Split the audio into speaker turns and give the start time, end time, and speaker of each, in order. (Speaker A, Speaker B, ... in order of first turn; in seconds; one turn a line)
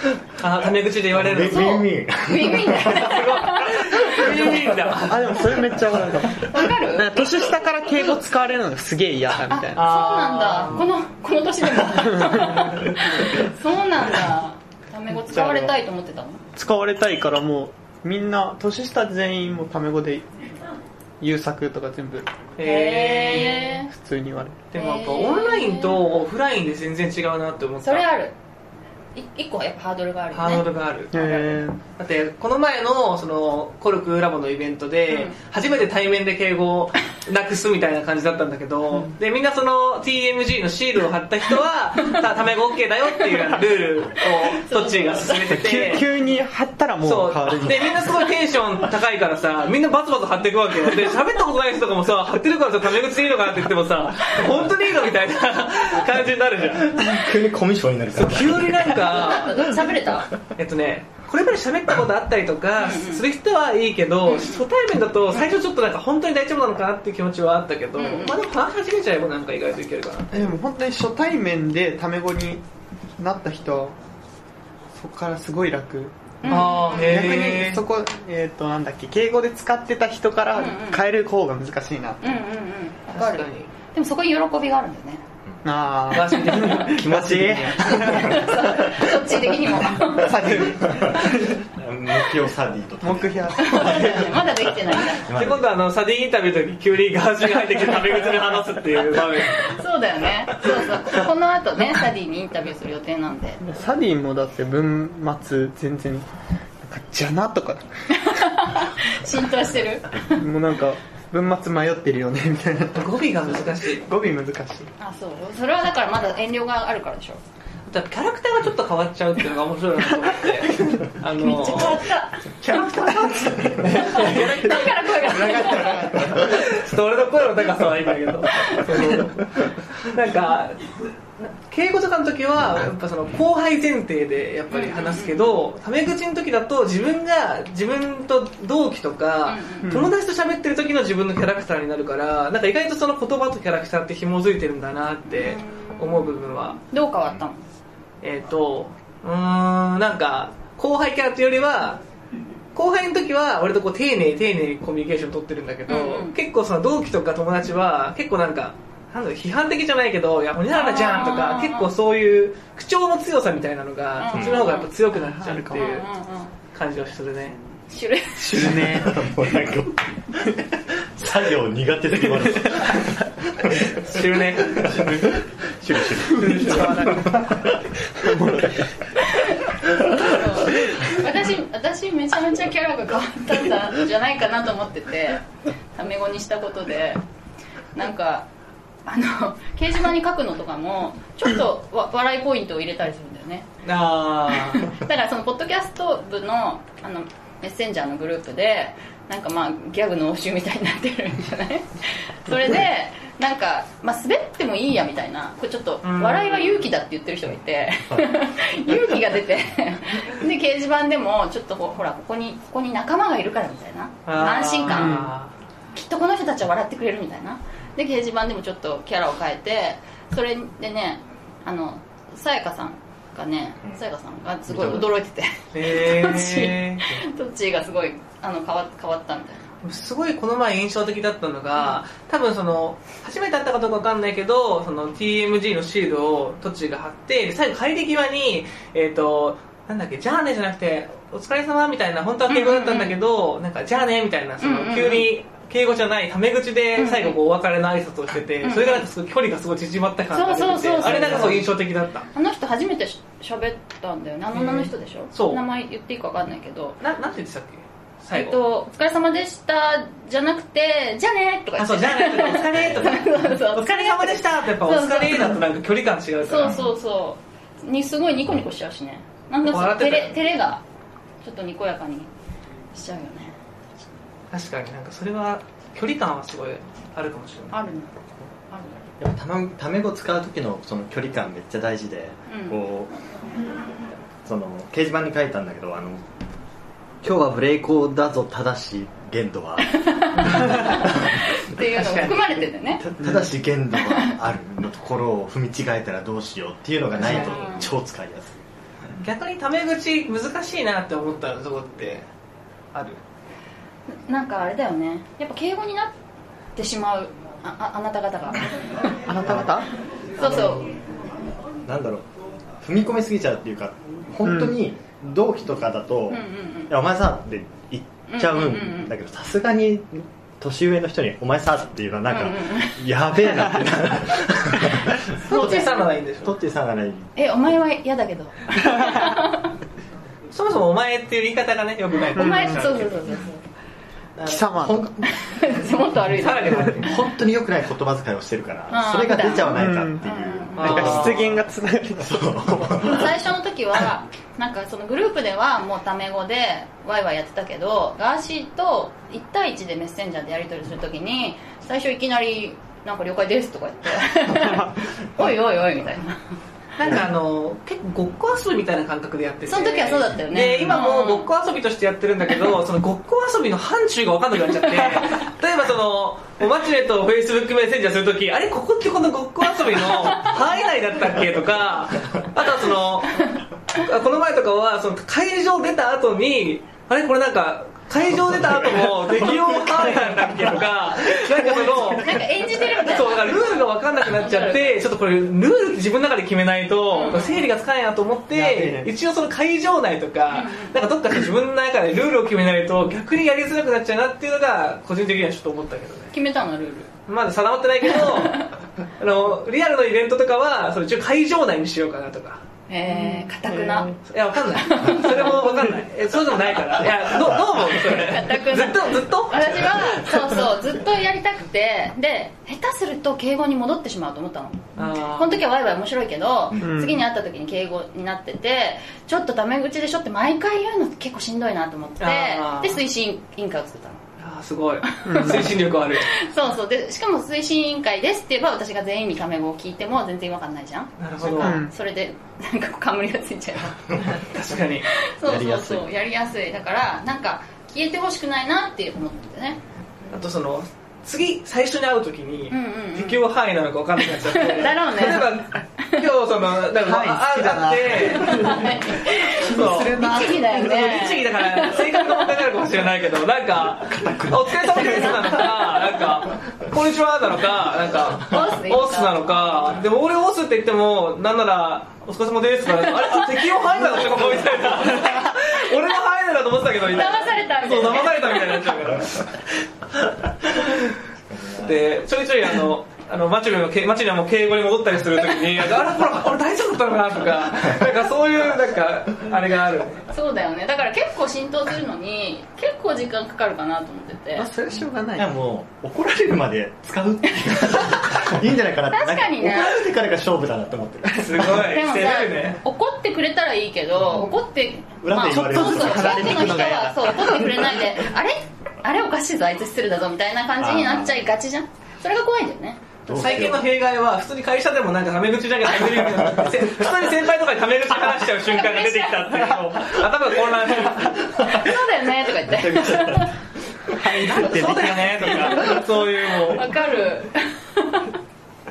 Speaker A: 0.4-1.8
Speaker B: 1.1-3.3
Speaker C: 1.4-4.3
Speaker A: 2.9-5.5
Speaker D: 5.0-9.9
Speaker C: 6.4-7.2
Speaker C: 9.5-16.4
Speaker A: 9.7-10.8
Speaker D: 15.3-15.8
Speaker D: 16.6-20.3
Speaker D: 21.2-22.3
Speaker A: 22.6-23.8
Speaker C: 22.6-23.9
Speaker D: 23.9-24.6
Speaker A: 24.7-28.1
Speaker C: 24.7-26.0
Speaker C: 27.8-28.3
Speaker C: 29.1-30.7
Speaker A: 30.3-46.1
Speaker D: 31.1-31.8
Speaker C: 35.1-35.4
Speaker C: 44.5-45.5
Speaker D: 45.5-48.1
Speaker A: 47.0-57.1
Speaker B: 57.0-59.0
Speaker A: 58.1-59.6
Speaker C: 59.1-60.3
Speaker A: 60.5-70.4
Speaker C: 62.8-63.2
Speaker C: 64.2-64.6
Speaker C: 68.0-68.4
Speaker D: 70.3-72.6
Speaker D: 73.2-74.0
Speaker D: 75.0-82.3
Speaker C: 76.4-77.4
Speaker A: 76.5-77.8
Speaker C: 80.5-81.0
Speaker C: 82.2-85.2
Speaker A: 83.1-83.7
Speaker D: 85.6-88.5
Speaker A: 86.1-87.0
Speaker B: 86.9-88.6
Speaker C: 87.9-90.6
Speaker D: 89.9-91.6
Speaker B: 90.4-95.7
Speaker D: 93.0-94.4
Speaker C: 93.6-95.3
Speaker A: 95.3-99.7
Speaker C: 99.4-103.6
Speaker D: 103.6-106.3
Speaker D: 106.8-107.8
Speaker C: 108.1-110.4
Speaker D: 110.4-113.2
Speaker A: 112.9-114.1
Speaker D: 114.0-114.9
Speaker C: 115.0-117.4
Speaker A: 117.9-122.0
Speaker C: 121.3-123.1
Speaker B: 122.7-124.0
Speaker D: 123.0-126.6
Speaker A: 123.8-125.7
Speaker C: 124.0-126.3
Speaker A: 126.2-146.8
Speaker C: 128.6-129.1
Speaker C: 134.7-135.6
Speaker C: 139.4-139.9
Speaker D: 139.8-140.1
Speaker C: 145.3-147.6
Speaker A: 148.2-152.0
Speaker A: 152.7-166.1
Speaker C: 155.9-156.3
Speaker C: 160.7-161.9
Speaker C: 164.2-164.9
Speaker B: 164.3-164.7
Speaker D: 165.2-165.9
Speaker C: 165.7-166.5
Speaker A: 166.7-167.6
Speaker C: 167.9-168.8
Speaker D: 168.4-169.3
Speaker B: 168.7-174.0
Speaker A: 173.9-175.2
Speaker B: 174.6-177.7
Speaker D: 176.3-177.7
Speaker A: 176.4-177.2
Speaker D: 178.2-178.9
Speaker C: 179.3-187.2
Speaker C: 187.9-188.5
Speaker C: 189.1-193.7
Speaker A: 193.8-194.9
Speaker C: 194.5-215.3
Speaker A: 206.0-206.9
Speaker A: 214.2-215.5
Speaker D: 214.9-215.3
Speaker C: 215.9-229.6
Speaker B: 224.7-225.1
Speaker A: 225.7-227.1
Speaker A: 229.8-252.2
Speaker C: 242.5-243.2
Speaker C: 244.6-245.3
Speaker C: 247.0-247.4
Speaker C: 248.6-249.1
Speaker C: 250.3-251.7
Speaker C: 252.3-257.0
Speaker A: 254.5-255.6
Speaker A: 257.0-258.6
Speaker C: 258.3-265.6
Speaker A: 261.8-266.8
Speaker C: 266.4-270.8
Speaker B: 266.6-266.9
Speaker A: 269.6-270.4
Speaker C: 271.4-272.3
Speaker C: 272.9-273.6
Speaker A: 274.5-277.8
Speaker C: 277.7-279.0
Speaker B: 279.2-283.1
Speaker C: 282.5-282.8
Speaker B: 284.4-286.2
Speaker B: 287.2-290.0
Speaker C: 289.9-293.0
Speaker A: 291.9-292.6
Speaker B: 293.0-298.6
Speaker C: 297.2-297.9
Speaker A: 297.2-297.6
Speaker A: 299.2-302.2
Speaker A: 302.9-303.2
Speaker C: 304.1-306.1
Speaker C: 306.7-309.1
Speaker D: 309.3-309.9
Speaker B: 309.4-309.8
Speaker C: 310.4-310.9
Speaker B: 310.4-310.8
Speaker B: 311.9-312.3
Speaker B: 312.8-325.8
Speaker D: 314.4-314.7
Speaker C: 316.3-316.9
Speaker C: 318.3-319.1
Speaker C: 322.3-323.0
Speaker C: 325.4-326.1
Speaker A: 325.4-326.5
Speaker B: 326.4-327.3
Speaker C: 327.4-329.7
Speaker A: 330.5-333.2
Speaker C: 332.3-333.6
Speaker D: 332.4-332.9
Speaker B: 334.4-335.3
Speaker D: 334.4-335.0
Speaker C: 335.2-337.2
Speaker A: 336.4-337.0
Speaker B: 337.0-341.5
Speaker C: 338.9-341.3
Speaker D: 339.7-340.2
Speaker A: 340.8-341.5
Speaker D: 340.8-343.1
Speaker B: 342.2-343.3
Speaker C: 343.0-356.4
Speaker A: 357.0-396.3
Speaker C: 359.7-361.5
Speaker B: 378.6-380.4
Speaker C: 382.1-385.0
Speaker C: 387.1-387.7
Speaker D: 388.5-389.1
Speaker C: 390.5-391.0
Speaker C: 396.3-397.1
Speaker A: 397.3-402.6
Speaker C: 398.1-398.7
Speaker C: 402.9-404.2
Speaker D: 403.7-404.1
Speaker A: 404.2-410.0
Speaker C: 404.8-405.8
Speaker C: 408.1-424.2
Speaker A: 415.0-415.6
Speaker D: 416.8-417.2
Speaker A: 422.2-423.0
Speaker A: 424.4-426.3
Speaker C: 425.1-425.7
Speaker D: 425.3-425.7
Speaker C: 426.2-434.2
Speaker A: 431.2-431.8
Speaker D: 431.6-431.9
Speaker A: 434.2-435.1
Speaker C: 435.1-439.8
Speaker B: 435.4-436.1
Speaker A: 440.3-448.9
Speaker C: 442.7-443.4
Speaker C: 444.4-446.2
Speaker D: 446.9-448.9
Speaker C: 448.4-452.6
Speaker D: 449.5-450.9
Speaker A: 449.6-469.6
Speaker B: 453.9-455.5
Speaker C: 455.2-455.5
Speaker C: 458.4-459.9
Speaker C: 463.3-465.5
Speaker C: 467.1-468.9
Speaker B: 471.5-472.1
Speaker A: 471.8-480.3
Speaker C: 480.3-484.7
Speaker D: 484.6-485.5
Speaker B: 485.3-491.8
Speaker C: 489.1-490.0
Speaker A: 491.3-492.8
Speaker C: 491.7-503.6
Speaker B: 494.2-494.5
Speaker B: 495.2-497.1
Speaker D: 495.4-498.0
Speaker B: 500.8-501.4
Speaker B: 503.2-503.9
Speaker A: 503.3-511.8
Speaker C: 508.6-509.8
Speaker C: 511.5-513.6
Speaker B: 512.6-513.5
Speaker B: 514.1-515.9
Speaker D: 514.2-515.1
Speaker A: 514.4-517.0
Speaker C: 516.6-518.4